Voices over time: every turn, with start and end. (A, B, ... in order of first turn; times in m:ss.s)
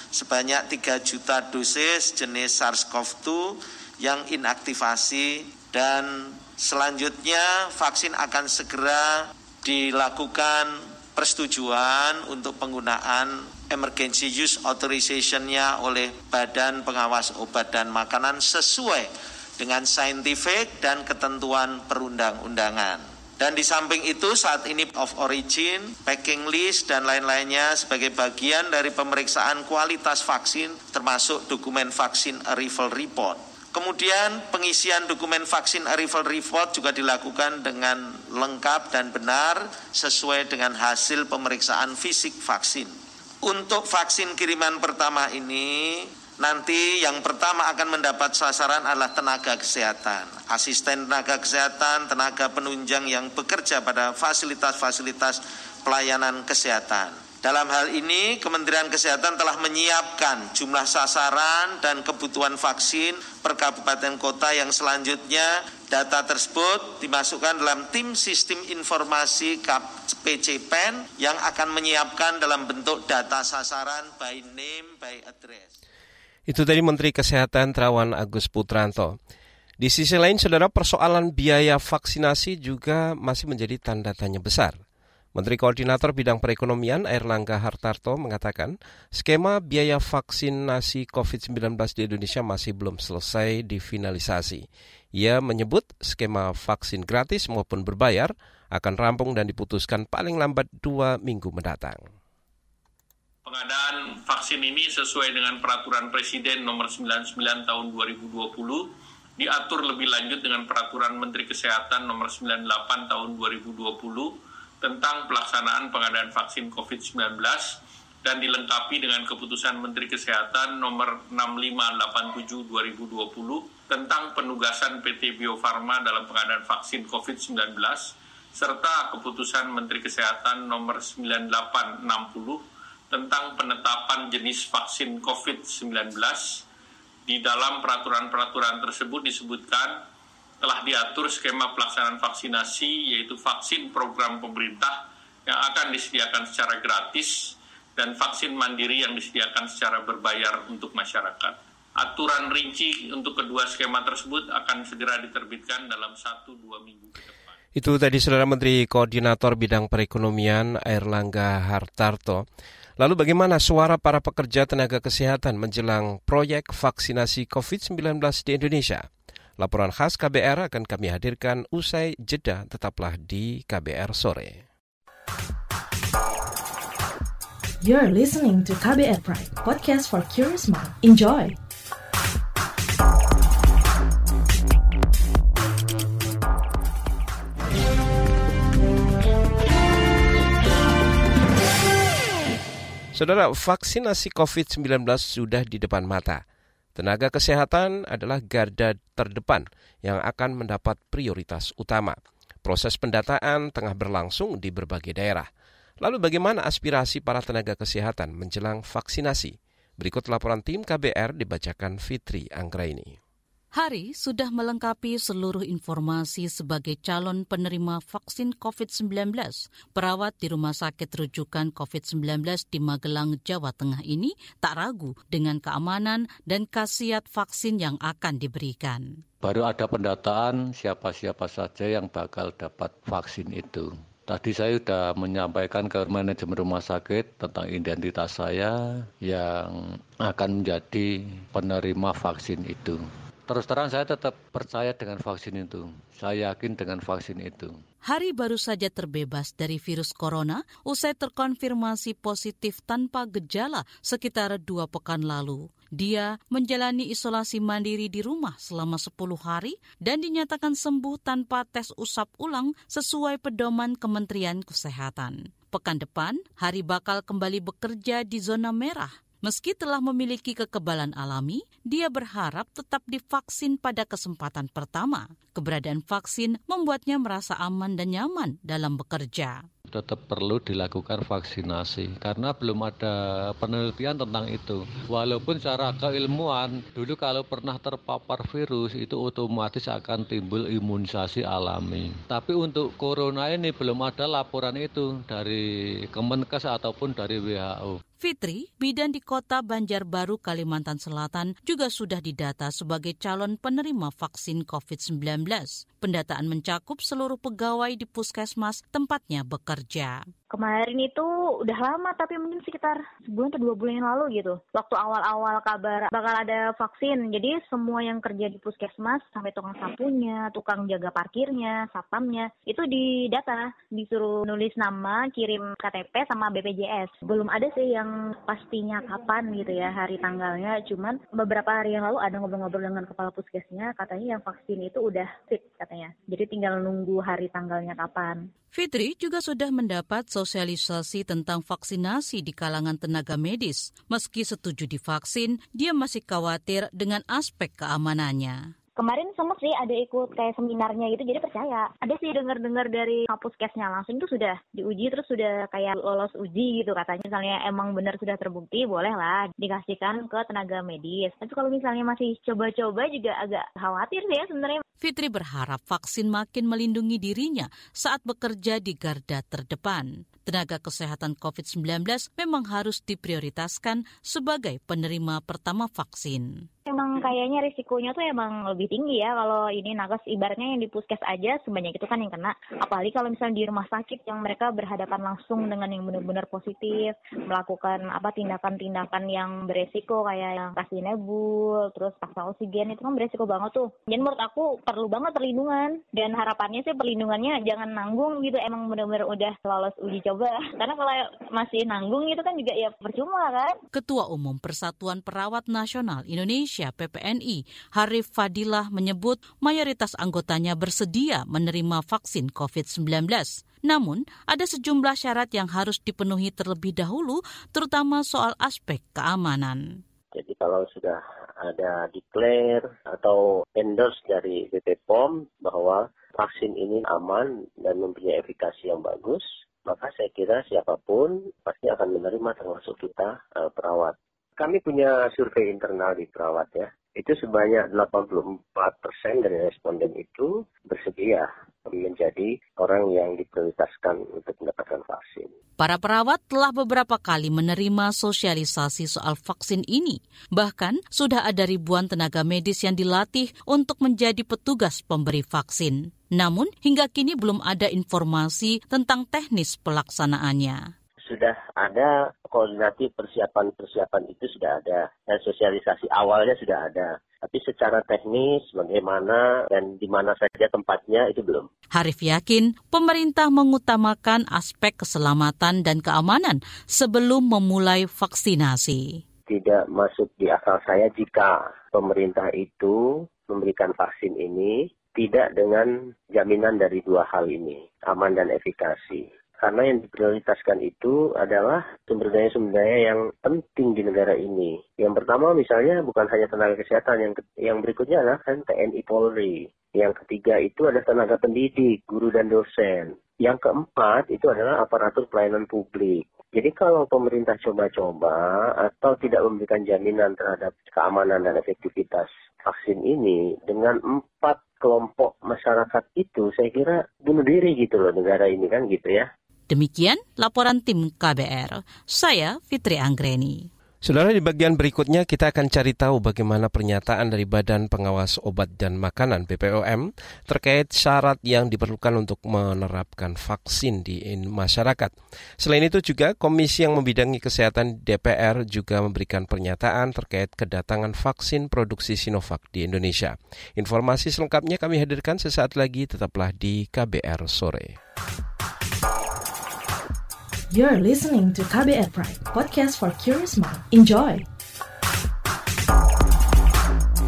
0:00.1-1:15.7 A
1:16.5-1:19.2 B
1:19.8-1:24.8 B
1:25.3-1:42.1 B
1:43.4-1:48.8 C
1:49.4-2:16.6 C
2:17.3-2:20.0 C
2:20.6-2:37.5 C
2:37.7-2:42.4 B
2:43.0-2:49.1 B
2:49.6-2:54.6 B
2:57.8-3:01.6 D
3:13.1-3:16.4 B
3:17.0-3:25.5 B
3:26.0-3:33.2 B
3:33.8-3:49.0 E
3:49.4-4:07.7 F
4:08.1-4:39.6 E
4:39.9-4:55.6 F
4:56.1-4:57.9 F
4:58.2-5:10.2 E
5:10.5-5:38.5 G
5:38.7-5:48.6 E
5:49.0-6:04.8 G
6:05.0-6:16.5 E
6:16.9-6:43.8 G
6:43.9-6:59.8 E
7:00.3-7:25.5 H
7:25.8-7:40.8 E
7:41.3-7:51.7 H
7:51.9-7:59.0 E
7:59.5-8:39.3 H
8:39.7-8:43.7 E
8:44.0-9:08.0 B
9:10.7-9:14.4 D